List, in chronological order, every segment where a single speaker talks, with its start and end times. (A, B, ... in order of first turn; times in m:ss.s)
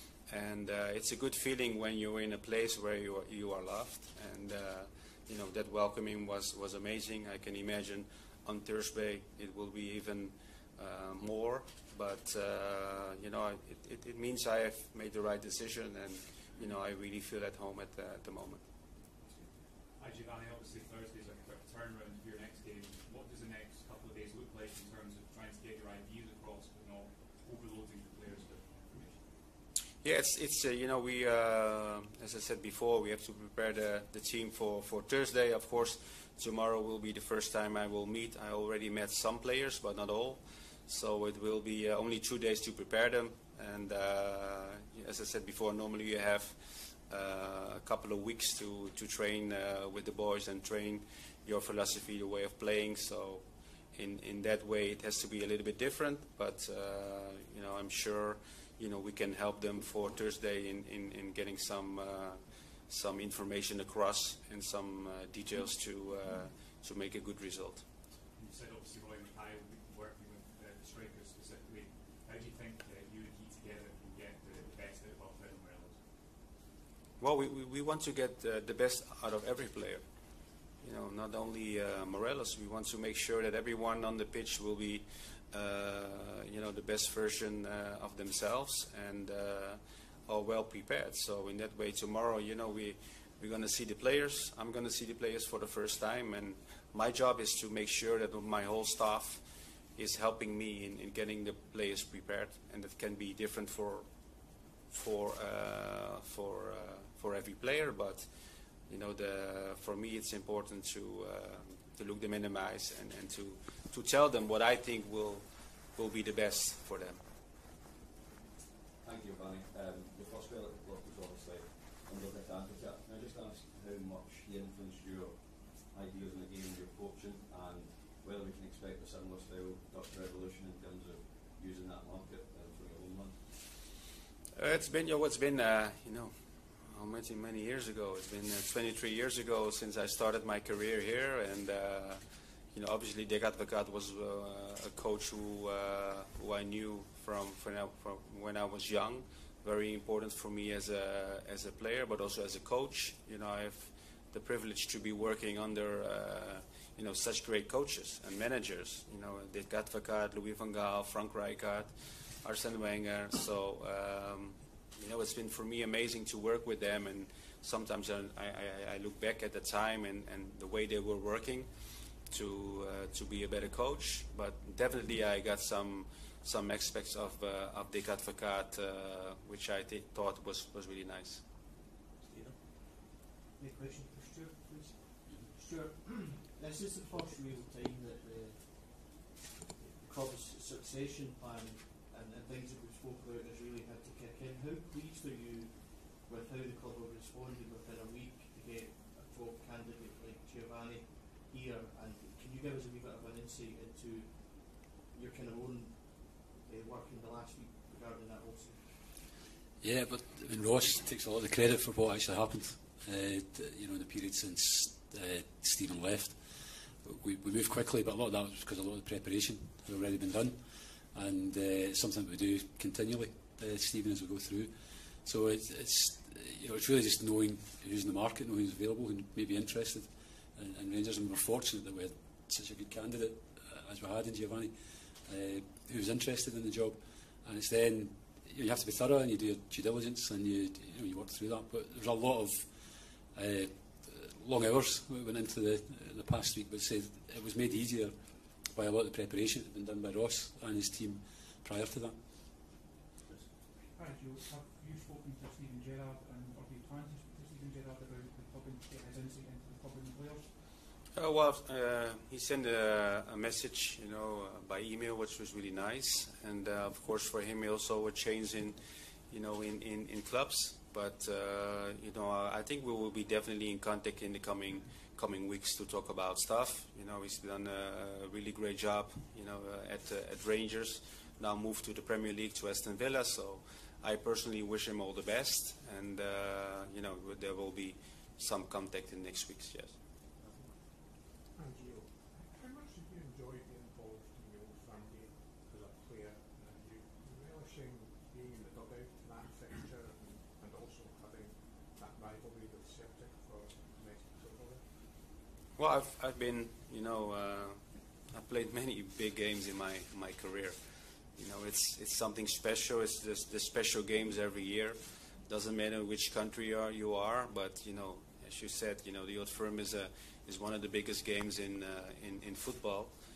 0:00.2-0:18.6 A
0:20.0-0:29.2 B
0:30.0-1:07.8 A
1:08.3-1:16.0 B
1:17.2-1:20.0 A
1:20.8-1:44.0 A
1:44.9-1:48.3 A
1:48.8-1:57.2 A
1:59.0-2:13.4 C
2:14.6-2:22.2 A
2:22.7-3:01.4 A
3:02.3-3:09.2 D
3:09.8-3:29.0 D
3:29.8-4:12.2 E
4:21.1-4:28.8 A
4:29.3-4:50.0 A
4:50.4-5:05.1 F
5:05.8-5:23.1 A